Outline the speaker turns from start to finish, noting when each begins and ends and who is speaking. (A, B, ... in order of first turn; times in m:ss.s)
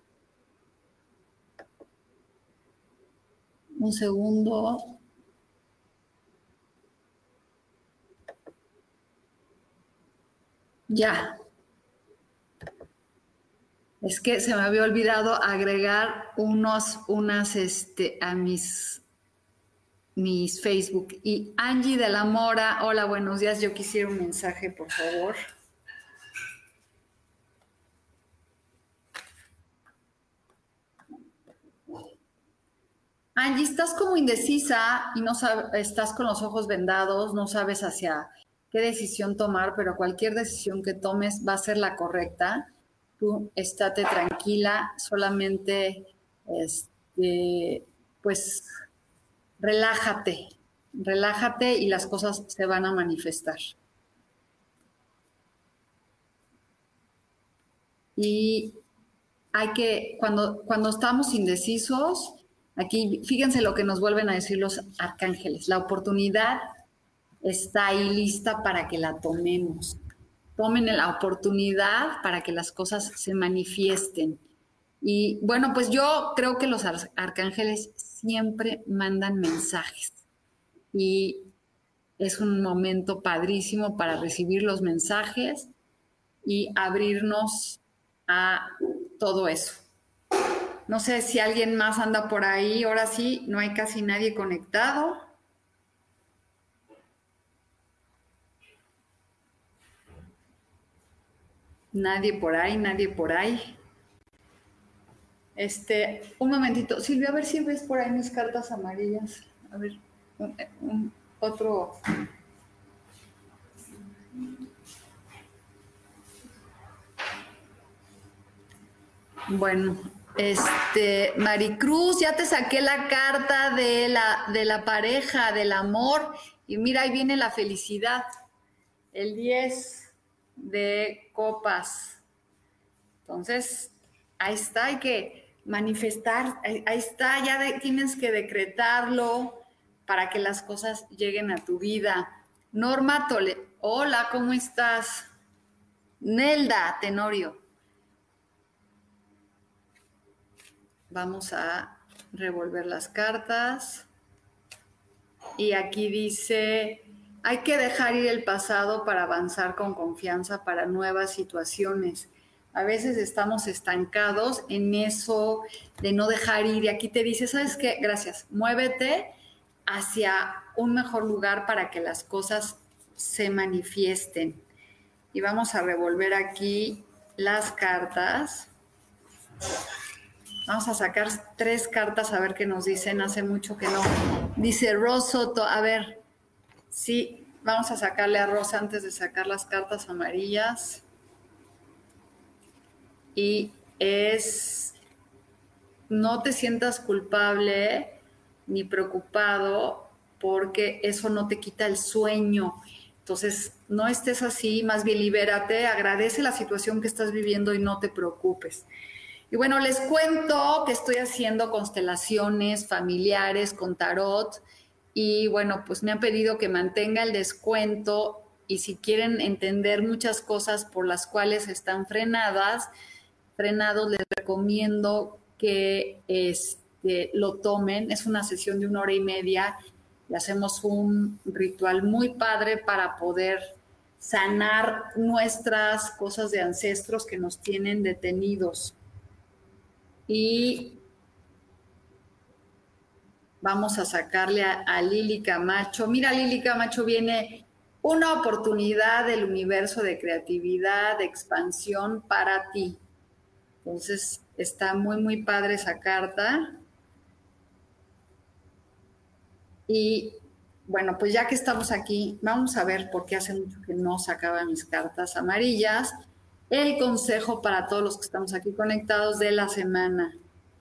0:03.8-0:05.0 A
0:10.9-0:11.4 A
0:14.0-0:19.0 A
0:20.2-0:25.4 A
0:33.4-0:42.7 A
0:43.2-0:48.7 A
0:49.6-0:53.8 A
0:58.2-0:58.8 A
0:59.5-1:06.6 A
1:07.4-1:10.0 A
1:10.6-1:14.4 A
1:15.0-1:20.2 A
1:20.9-1:21.5 A
1:22.2-1:25.7 A
1:26.4-1:29.8 A
1:30.9-1:35.2 A
1:41.9-1:43.7 A
1:45.6-1:52.0 A
1:59.5-2:08.2 A
2:09.1-2:12.2 A
2:13.2-2:25.3 A
2:26.2-2:27.6 A
2:31.1-2:34.1 A
2:35.6-2:49.3 A
2:49.9-2:54.6 A
2:55.3-2:58.7 A
3:00.6-3:06.2 A
3:06.9-3:11.0 A
3:13.4-3:15.0 A
3:16.1-3:28.9 A
3:29.5-3:34.6 A
3:35.1-3:42.9 A
3:43.6-3:49.8 A
3:50.3-3:59.0 A
4:00.3-4:01.0 A
4:03.6-4:13.0 A
4:13.8-4:16.8 A
4:19.9-4:26.1 A
4:26.7-4:30.4 A